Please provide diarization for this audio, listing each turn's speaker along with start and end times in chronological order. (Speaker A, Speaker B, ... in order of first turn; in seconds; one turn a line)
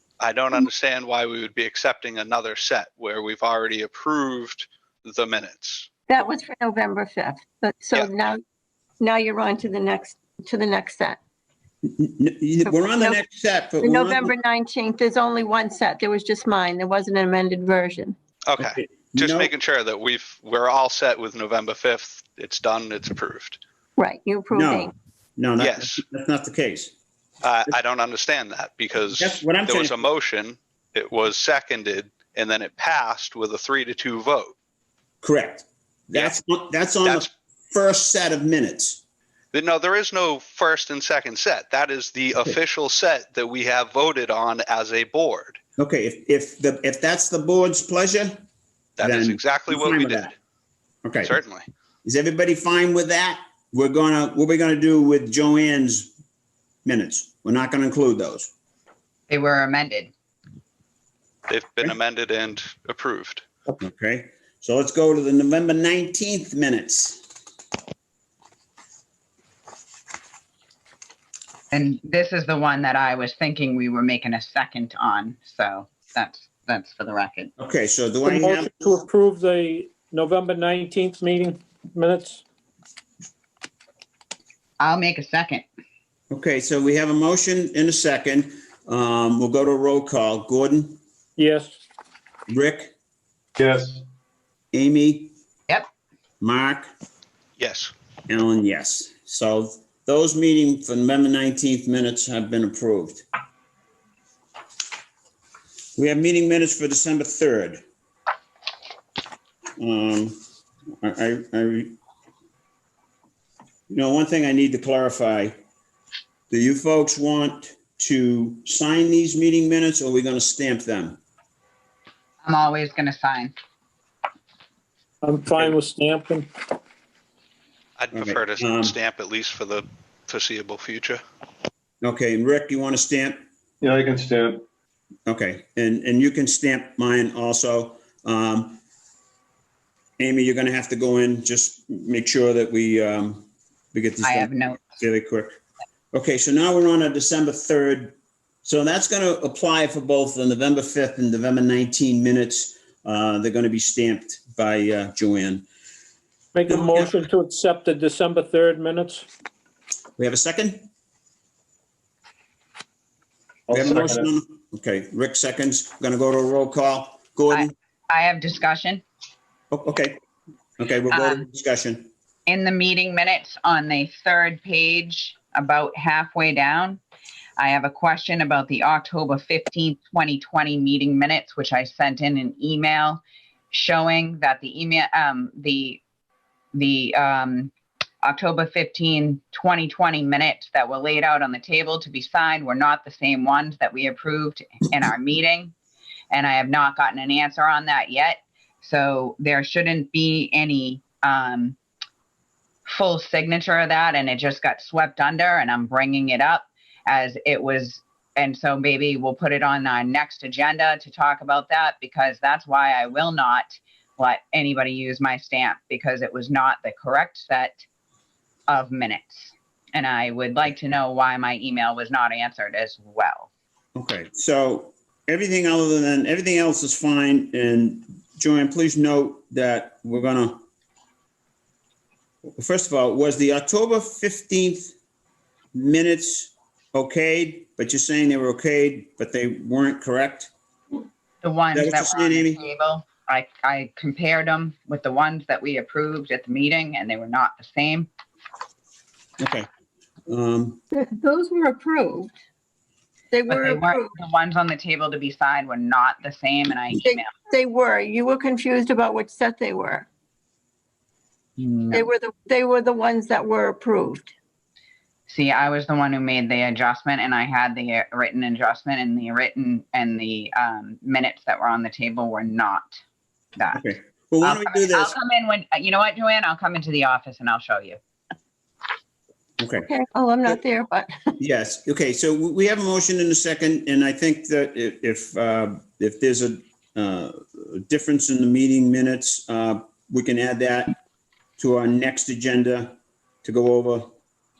Speaker A: 0.2-5.9
Speaker B: 6.1-8.4
Speaker B: 9.0-11.2
Speaker C: 11.8-14.3
Speaker B: 12.7-13.2
Speaker B: 13.8-18.1
Speaker A: 18.5-23.6
Speaker C: 18.6-19.5
Speaker B: 24.0-24.9
Speaker C: 24.5-26.9
Speaker A: 25.6-26.0
Speaker A: 27.4-34.5
Speaker C: 29.1-30.0
Speaker C: 35.2-39.0
Speaker A: 37.0-37.3
Speaker A: 39.5-45.6
Speaker C: 45.8-48.4
Speaker A: 49.0-50.3
Speaker C: 49.0-50.3
Speaker C: 51.0-51.4
Speaker A: 51.2-51.6
Speaker C: 52.0-56.1
Speaker C: 56.8-58.5
Speaker D: 59.3-60.1
Speaker A: 61.5-63.4
Speaker C: 63.8-67.2
Speaker D: 71.7-77.5
Speaker C: 77.6-78.9
Speaker E: 78.2-82.4
Speaker D: 84.8-85.6
Speaker C: 86.3-91.0
Speaker E: 91.4-91.8
Speaker C: 92.5-92.9
Speaker F: 93.6-94.0
Speaker C: 94.7-95.3
Speaker C: 96.4-96.9
Speaker A: 97.6-97.9
Speaker C: 98.3-103.2
Speaker C: 106.0-107.8
Speaker C: 109.8-110.4
Speaker C: 111.0-112.0
Speaker C: 113.9-115.5
Speaker C: 116.5-121.2
Speaker D: 122.4-123.5
Speaker E: 125.2-126.5
Speaker A: 128.0-131.2
Speaker C: 128.1-128.9
Speaker C: 132.0-133.4
Speaker F: 133.8-134.6
Speaker C: 135.3-138.8
Speaker C: 140.2-145.6
Speaker D: 144.2-145.0
Speaker C: 146.1-155.7
Speaker E: 156.5-159.2
Speaker C: 156.7-157.2
Speaker C: 160.2-160.9
Speaker F: 163.7-164.3
Speaker C: 163.7-167.7
Speaker D: 167.5-169.0
Speaker C: 169.7-170.2
Speaker C: 170.8-172.1
Speaker D: 171.1-171.4
Speaker D: 172.5-177.0
Speaker D: 177.6-186.0
Speaker D: 186.7-187.7
Speaker D: 188.2-195.7
Speaker D: 196.3-201.8
Speaker D: 202.8-217.8
Speaker D: 218.7-223.5
Speaker C: 223.9-230.6
Speaker C: 232.6-234.9
Speaker C: 235.7-240.5
Speaker D: 241.4-248.1
Speaker C: 241.7-242.6
Speaker C: 249.4-249.7
Speaker C: 250.3-250.8
Speaker B: 250.9-252.3
Speaker B: 253.3-254.1
Speaker D: 253.5-257.3
Speaker B: 257.0-260.1
Speaker D: 261.6-262.1
Speaker B: 261.9-264.3
Speaker D: 265.3-273.0
Speaker D: 273.6-273.8
Speaker C: 273.7-275.1
Speaker D: 274.4-278.0
Speaker C: 279.6-279.9
Speaker B: 279.9-281.3
Speaker C: 281.4-290.9
Speaker C: 291.6-294.1